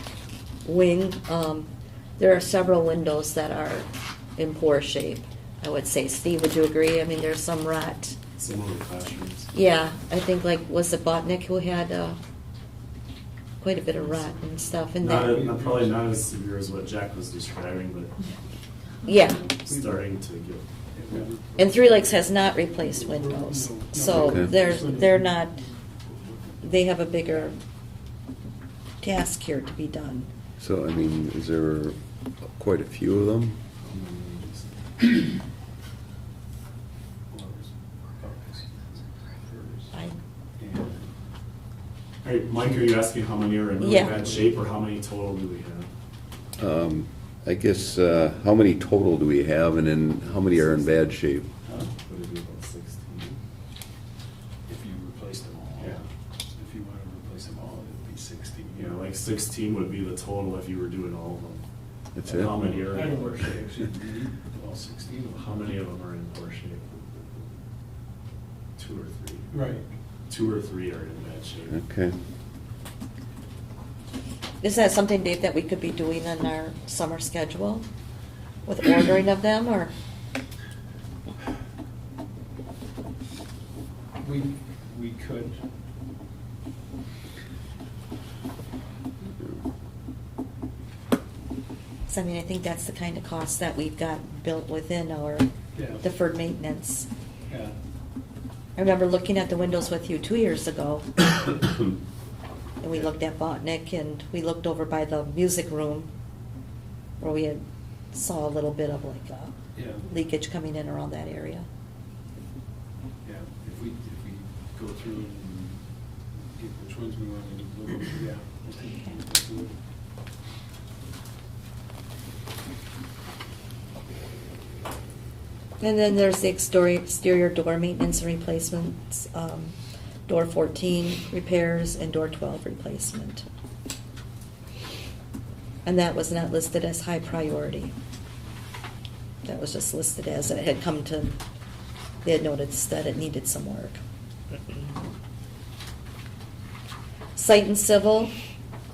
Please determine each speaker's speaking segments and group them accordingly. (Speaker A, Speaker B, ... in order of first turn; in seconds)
Speaker A: 0.6-8.2, 9.5-12.2, 13.6-15.3, 19.0-19.4, 21.6-25.6, 26.6-27.6, 29.0-30.3, 43.8-44.2, 74.6-77.8, 78.6-79.9, 92.1-95.5, 96.0-97.1, 98.8-101.1, 102.8-106.1, 107.2-111.7, 125.8-129.7, 130.3-133.4, 135.8-137.9, 139.4-141.4, 142.2-144.0, 147.3-148.3
Speaker B: 8.3-9.5, 15.0-18.1, 19.6-21.2, 33.8-34.9, 42.2-45.9, 51.9-53.4, 55.8-56.0, 58.8-61.6, 62.2-63.6, 65.3-67.2, 68.8-69.5, 70.3-71.8
Speaker C: 15.2-16.2, 19.1-20.1, 20.9-21.6, 22.8-26.4, 37.3-39.9, 40.6-41.1, 44.1-44.5, 51.6-51.9, 54.7-56.0, 56.5-59.0, 62.7-65.8, 69.5-69.8, 84.2-85.6, 95.7-96.0, 97.5-97.7, 109.7-110.0, 113.2-115.8, 116.5-119.7
Speaker D: 24.0-24.5, 30.6-31.9, 32.5-33.6, 46.6-51.5, 62.1-62.6, 71.7-72.2